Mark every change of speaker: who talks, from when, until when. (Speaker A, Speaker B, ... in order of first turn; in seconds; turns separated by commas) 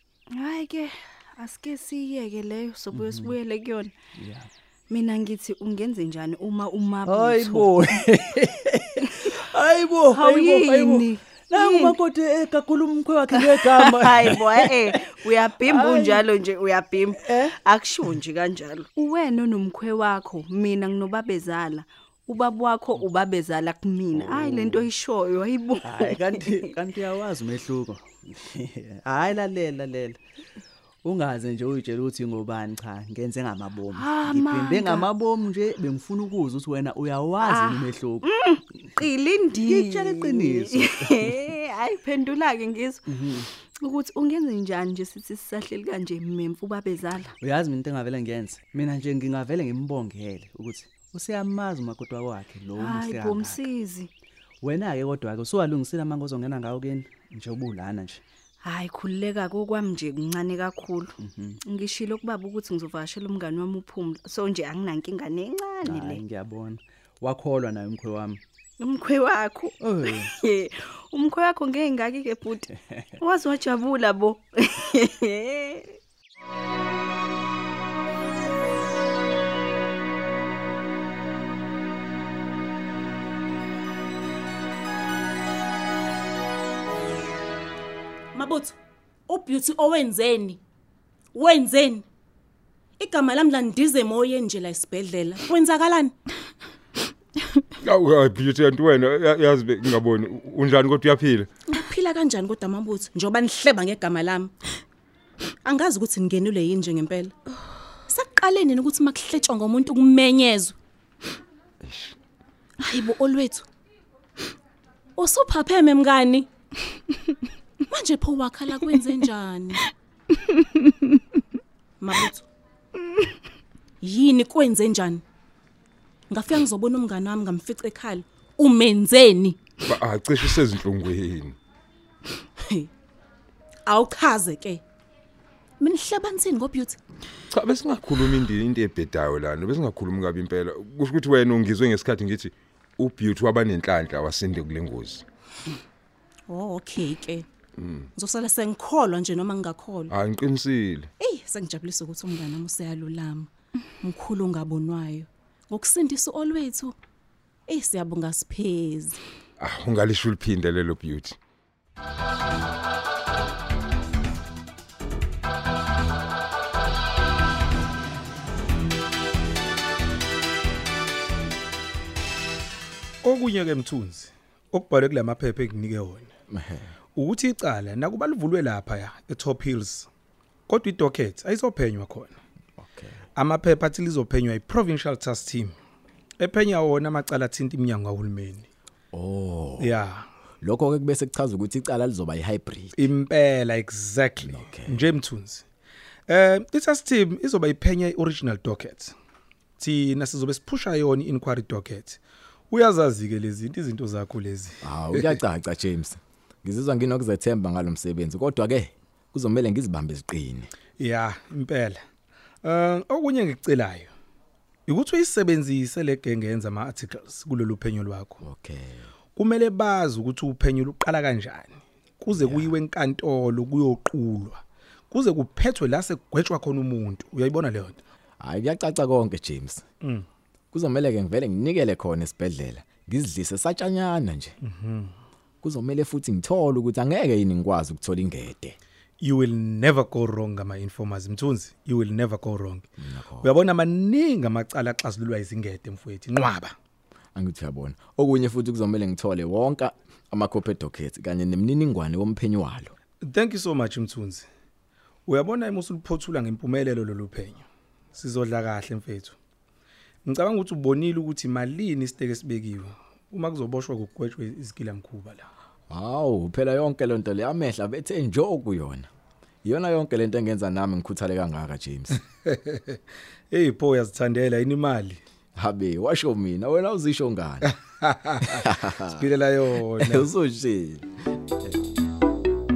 Speaker A: 0.3-3.9, Speaker B: 2.9-3.3, Speaker B: 4.2-4.5, Speaker A: 4.9-8.0, Speaker B: 7.1-9.0, Speaker B: 9.5-15.0, Speaker A: 10.1-12.0, Speaker A: 13.3-26.7, Speaker B: 15.7-16.2, Speaker B: 17.2-17.5, Speaker B: 24.2-24.7, Speaker B: 25.9-30.2, Speaker B: 31.0-38.2, Speaker A: 33.9-35.1, Speaker A: 37.4-43.1, Speaker B: 39.7-41.0, Speaker B: 43.2-43.5, Speaker A: 43.7-47.4, Speaker B: 47.4-53.6, Speaker A: 52.8-54.1, Speaker B: 54.6-58.2, Speaker A: 58.6-66.2, Speaker B: 61.2-61.5, Speaker B: 65.8-68.4, Speaker A: 68.8-72.7, Speaker B: 69.8-70.3, Speaker A: 73.2-76.0, Speaker C: 88.3-88.7, Speaker C: 89.3-90.6, Speaker C: 91.3-92.0, Speaker C: 93.0-96.1, Speaker D: 97.8-101.5, Speaker C: 101.7-104.5, Speaker C: 105.6-107.3, Speaker C: 108.1-110.8, Speaker D: 111.8-112.2, Speaker C: 112.8-113.7, Speaker C: 115.2-116.5, Speaker C: 117.9-119.8, Speaker C: 122.0-122.4, Speaker C: 124.0-125.2, Speaker C: 126.3-129.6, Speaker D: 129.9-131.6, Speaker C: 132.6-132.9, Speaker C: 133.8-134.8, Speaker C: 135.8-137.0, Speaker D: 137.5-145.2, Speaker C: 146.5-147.4, Speaker D: 147.8-148.1, Speaker C: 148.1-150.1, Speaker D: 150.1-151.1, Speaker C: 151.2-156.9, Speaker C: 157.7-159.2, Speaker D: 159.6-161.4, Speaker E: 173.2-176.3, Speaker F: 176.5-176.9, Speaker E: 177.2-180.1, Speaker E: 180.7-182.4, Speaker F: 182.8-183.2, Speaker E: 183.3-185.7, Speaker E: 186.4-188.7, Speaker F: 189.1-189.9, Speaker E: 189.8-190.3, Speaker F: 190.6-193.0, Speaker E: 193.0-195.6, Speaker F: 194.5-195.0, Speaker E: 196.3-199.1, Speaker E: 199.8-202.2, Speaker E: 202.7-205.3, Speaker F: 204.8-210.7, Speaker E: 211.0-212.0, Speaker E: 212.6-214.1, Speaker E: 214.9-218.4, Speaker F: 218.4-219.1, Speaker E: 219.3-228.0, Speaker F: 222.3-222.7, Speaker F: 228.4-229.8, Speaker F: 230.7-234.5, Speaker E: 234.6-235.1, Speaker F: 235.6-238.8, Speaker E: 239.2-242.8, Speaker F: 243.0-243.5, Speaker E: 243.4-246.7, Speaker F: 247.3-252.9, Speaker E: 253.2-254.5, Speaker E: 255.3-259.4, Speaker E: 260.2-265.5, Speaker F: 265.9-269.1, Speaker F: 269.6-272.2, Speaker E: 272.4-273.0, Speaker E: 273.5-275.2, Speaker F: 275.6-277.7, Speaker E: 278.0-278.6, Speaker F: 278.5-279.1, Speaker E: 279.2-280.2, Speaker F: 280.1-281.1